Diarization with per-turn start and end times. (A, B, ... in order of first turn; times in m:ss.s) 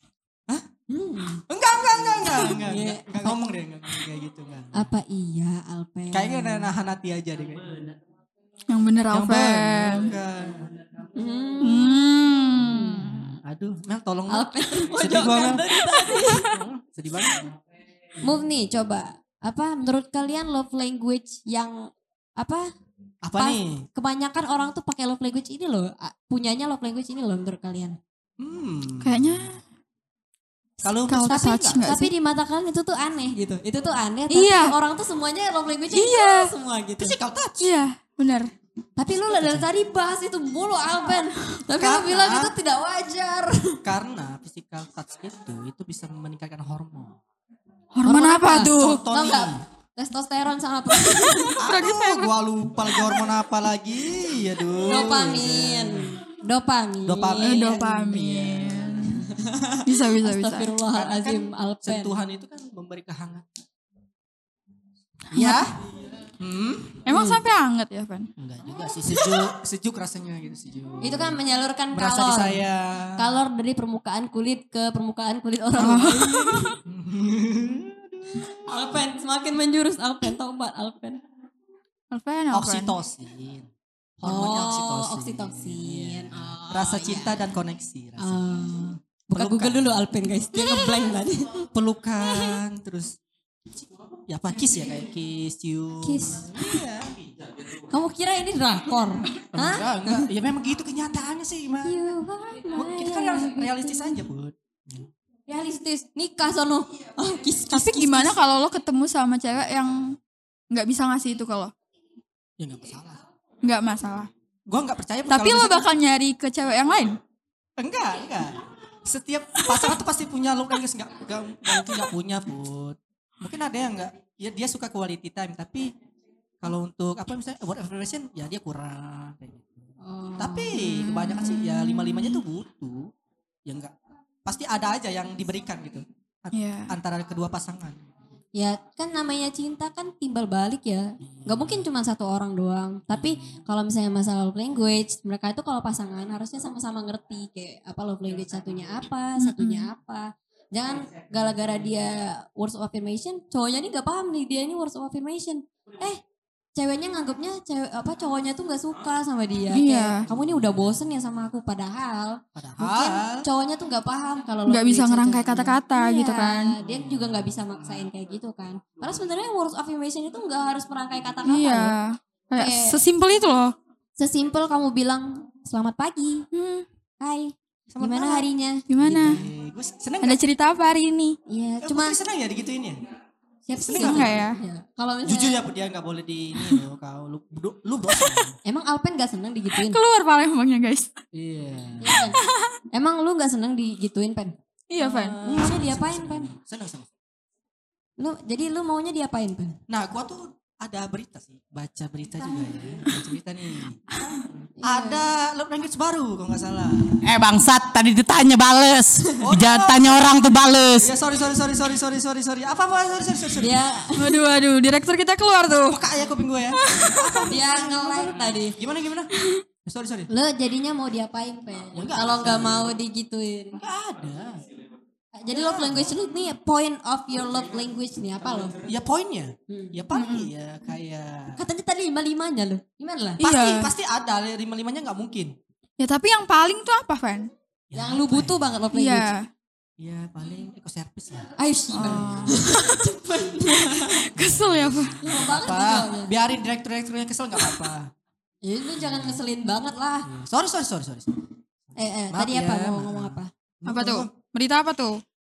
0:00.9-0:01.4 A
0:01.5-0:04.8 B
0:02.3-0:03.4 A
0:04.7-0:06.7 A
0:06.1-0:07.9 B
0:08.7-0:10.1 C
0:09.1-0:10.7 B
0:11.2-0:13.0 A
0:11.6-0:13.2 C
0:13.0-0:17.5 B
0:14.3-0:16.5 A
0:18.2-0:22.7 A
0:23.2-0:23.9 B
0:23.4-0:28.0 A
0:28.4-0:29.5 B
0:29.0-0:29.5 C
0:30.8-0:31.8 B
0:31.1-0:32.1 C
0:31.3-0:37.2 A
0:34.3-0:34.7 C
0:35.9-0:36.5 C
0:37.0-0:37.7 B
0:37.6-0:38.5 C
0:39.0-0:43.8 A
0:39.1-0:39.7 B
0:41.7-0:42.5 B
0:43.8-0:47.2 B
0:47.9-0:49.0 C
0:48.0-0:49.6 B
0:48.1-0:51.6 A
0:51.6-0:56.2 B
0:51.6-0:52.3 C
0:54.8-0:57.6 A
0:57.0-0:59.3 B
0:57.4-0:59.1 C
0:59.2-1:02.1 A
0:59.8-1:00.7 C
1:00.9-1:03.4 B
1:05.3-1:05.7 B
1:05.3-1:05.7 C
1:06.4-1:07.0 B
1:07.0-1:08.3 C
1:07.1-1:07.4 A
1:08.4-1:11.4 B
1:11.0-1:12.6 A
1:11.9-1:13.2 B
1:13.2-1:16.8 A
1:15.8-1:16.7 C
1:16.8-1:18.5 B
1:18.6-1:21.2 A
1:22.1-1:22.9 C
1:22.5-1:28.4 B
1:24.2-1:27.4 A
1:28.2-1:31.7 A
1:29.3-1:30.0 B
1:31.7-1:33.2 B
1:34.3-1:37.5 B
1:36.0-1:36.6 A
1:37.9-1:40.3 A
1:39.5-1:42.0 B
1:41.8-1:44.2 A
1:42.7-1:45.1 B
1:45.5-1:48.4 A
1:47.7-1:50.2 C
1:50.7-1:51.7 C
1:52.6-1:53.2 B
1:53.6-1:54.3 C
1:54.7-1:55.9 B
1:55.3-1:57.2 C
1:57.8-2:05.9 B
2:06.6-2:13.1 B
2:10.0-2:10.8 A
2:10.7-2:12.4 C
2:13.6-2:13.9 B
2:14.4-2:18.0 B
2:16.5-2:16.9 C
2:18.5-2:36.2 A
2:21.3-2:21.8 B
2:29.4-2:29.8 C
2:36.8-2:51.9 A
2:39.7-2:40.2 C
2:42.6-2:43.5 B
2:44.7-2:46.8 C
2:51.5-2:53.7 C
2:52.5-2:53.0 A
2:54.2-2:56.4 A
2:56.5-2:56.8 C
2:57.2-2:59.4 A
2:57.9-2:58.4 B
2:58.9-2:59.4 C
2:59.0-3:00.4 B
3:00.2-3:01.4 C
3:01.5-3:02.2 A
3:01.8-3:03.0 B
3:03.6-3:05.6 A
3:03.8-3:04.4 B
3:04.0-3:04.6 C
3:05.2-3:08.6 B
3:08.6-3:10.0 A
3:09.7-3:11.2 C
3:11.3-3:12.2 B
3:12.0-3:12.4 A
3:12.2-3:12.7 C
3:12.9-3:14.5 A
3:14.9-3:15.4 C
3:15.0-3:17.1 B
3:15.4-3:16.5 A
3:18.2-3:19.8 A
3:19.9-3:24.2 B
3:24.8-3:25.2 A
3:24.8-3:27.3 B
3:27.2-3:31.1 D
3:29.4-3:30.3 B
3:30.9-3:33.9 B
3:33.6-3:34.3 A
3:34.2-3:36.0 C
3:35.8-3:39.3 B
3:36.7-3:37.5 C
3:37.4-3:38.8 A
3:39.8-3:40.3 B
3:40.3-3:43.8 A
3:41.9-3:42.9 B
3:43.8-3:44.6 B
3:45.3-3:48.8 A
3:45.5-3:46.1 B
3:48.8-3:51.6 B
3:49.7-3:50.0 A
3:50.1-3:50.5 C
3:51.6-3:53.4 A
3:53.4-3:53.9 C
3:53.4-3:55.5 B
3:56.0-3:57.5 C
3:57.9-3:58.7 B
3:57.9-3:59.3 A
3:58.9-3:59.5 C
4:00.0-4:02.7 B
4:01.6-4:04.2 A
4:01.9-4:03.1 C
4:03.9-4:05.2 C
4:04.3-4:08.1 B
4:05.2-4:06.3 A
4:08.6-4:10.3 A
4:09.0-4:09.4 B
4:10.2-4:14.3 B
4:12.0-4:13.5 A
4:13.8-4:15.2 C